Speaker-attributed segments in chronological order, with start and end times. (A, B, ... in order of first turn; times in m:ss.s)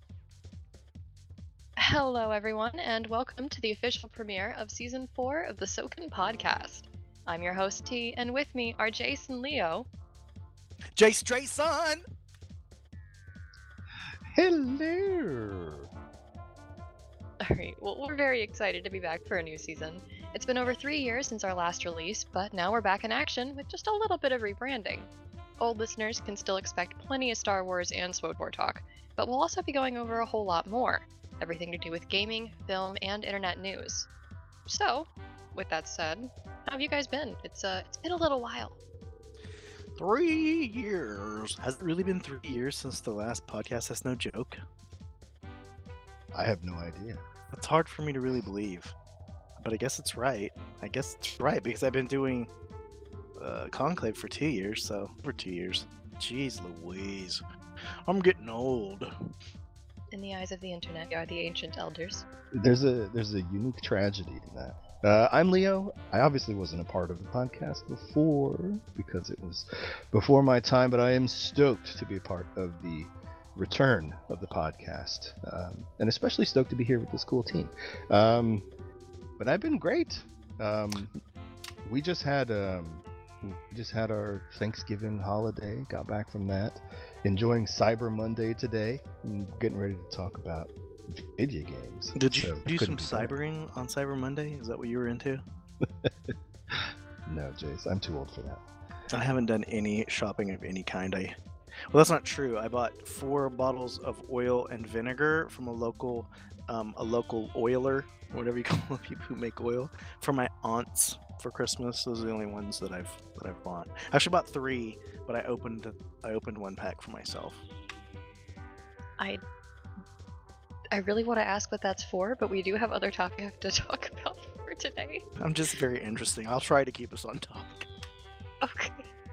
0:01.8-0:09.9 A
0:11.0-0:12.0 B
0:14.3-0:15.9 C
0:17.4-0:25.1 A
0:25.6-0:34.1 A
0:34.7-0:38.8 A
0:40.0-0:44.6 B
0:46.3-0:47.2 C
0:47.5-0:48.9 B
0:49.6-0:52.5 B
0:53.4-0:57.4 B
0:58.1-0:59.1 B
1:00.1-1:02.3 A
1:02.6-1:18.7 C
1:19.4-1:21.2 C
1:21.8-1:33.3 C
1:32.2-1:35.4 B
1:35.8-1:36.1 C
1:36.7-1:38.6 C
1:39.1-1:41.4 B
1:41.9-1:57.6 B
2:00.9-2:05.2 A
2:05.4-2:07.9 B
2:08.6-2:09.1 A